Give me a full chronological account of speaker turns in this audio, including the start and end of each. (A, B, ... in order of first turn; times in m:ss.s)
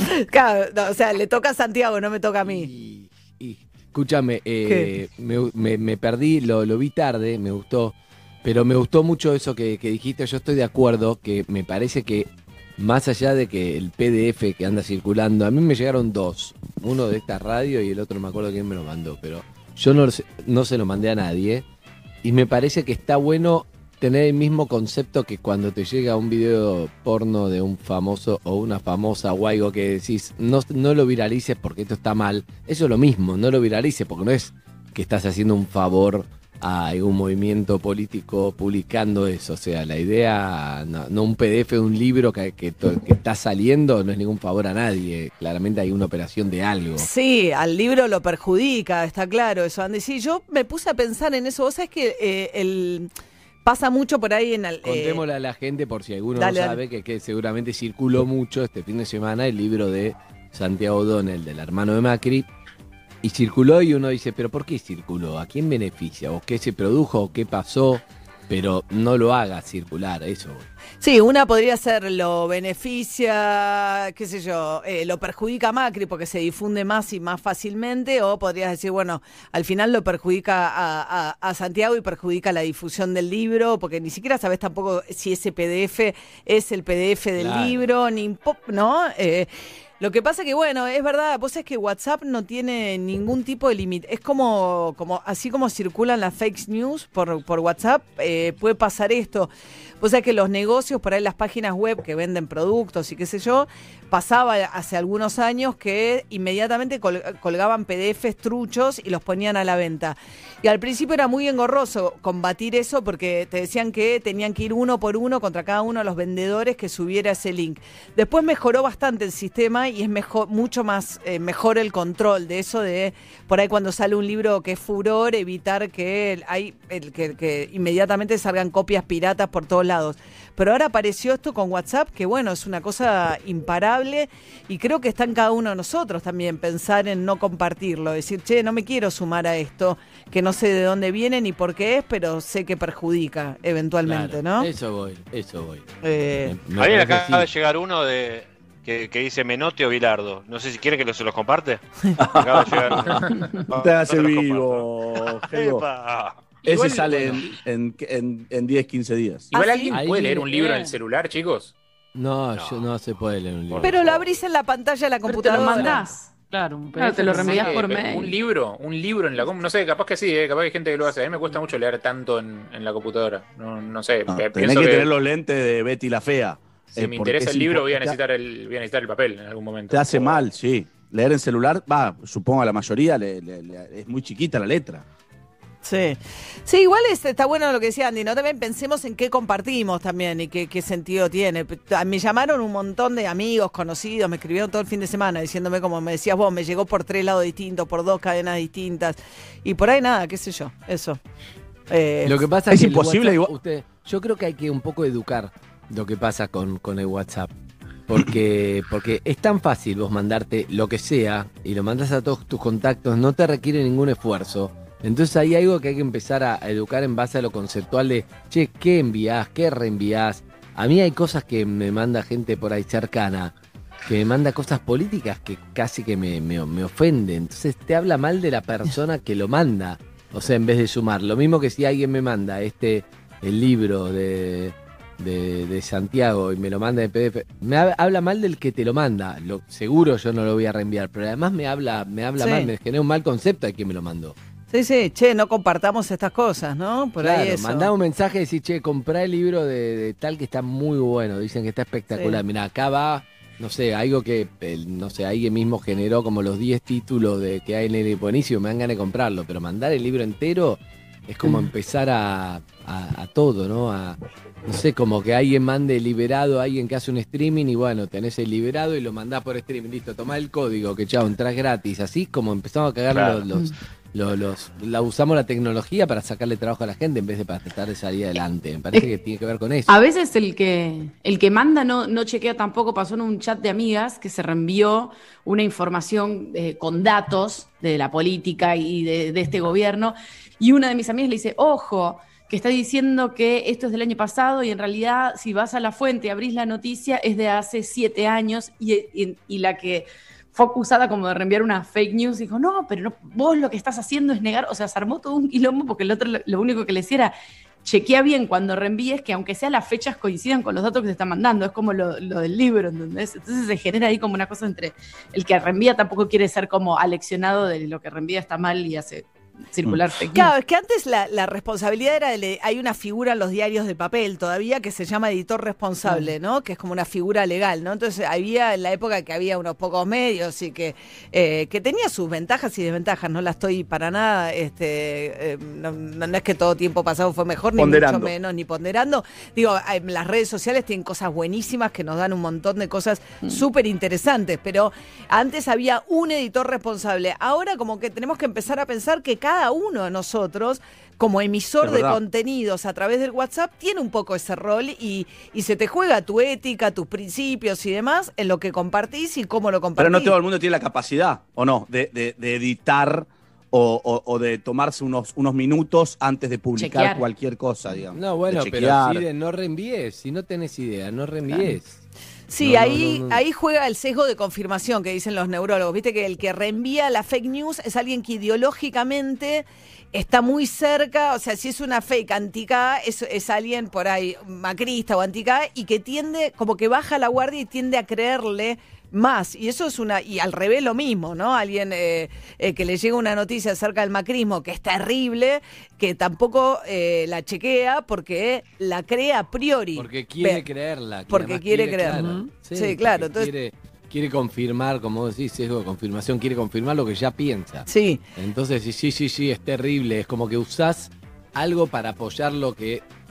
0:00.1-0:02.7 A
0:02.4-0:21.6 B
0:22.2-0:47.1 B
0:47.0-0:53.1 A
0:53.6-0:55.2 A
0:54.8-1:02.5 B
0:56.4-0:56.8 A
1:03.2-1:10.7 B
1:11.0-1:29.5 A
1:27.4-1:27.8 B
1:30.0-1:39.5 A
1:40.0-2:24.7 A
2:24.0-2:25.9 B
2:26.0-2:26.6 A
2:26.4-2:27.5 B
2:26.8-2:31.8 C
2:32.2-2:33.2 D
2:32.3-2:36.5 C
2:33.8-2:35.8 D
2:36.6-2:39.5 D
2:36.7-2:37.0 E
2:39.5-2:41.7 E
2:39.9-2:40.5 B
2:40.5-2:40.9 F
2:42.2-2:44.3 B
2:42.6-2:42.9 C
2:43.8-2:46.0 A
2:45.3-2:47.9 F
2:45.3-2:46.4 G
2:46.9-2:48.3 G
2:47.4-2:55.1 E
2:54.3-2:58.2 D
2:56.9-3:00.5 E
2:59.9-3:05.0 D
3:05.8-3:21.2 A
3:21.9-3:22.5 A
3:22.2-3:27.5 B
3:22.7-3:23.5 D
3:28.1-3:43.5 B
3:44.0-4:04.4 B
4:02.4-4:02.7 A
4:04.7-4:07.9 A
4:07.2-4:40.0 B
4:12.2-4:12.4 A
4:33.1-4:33.4 C
4:39.9-5:20.5 G
5:19.8-5:20.1 D
5:20.3-6:00.4 A
5:37.8-5:38.3 D
5:51.8-5:52.2 D
6:00.0-6:09.2 D
6:06.8-6:07.2 G
6:08.1-6:12.0 B
6:12.5-6:40.6 A
6:12.6-6:13.4 B
6:40.0-6:53.0 B
6:41.3-6:43.5 A
6:42.2-6:42.5 F
6:47.9-6:48.2 A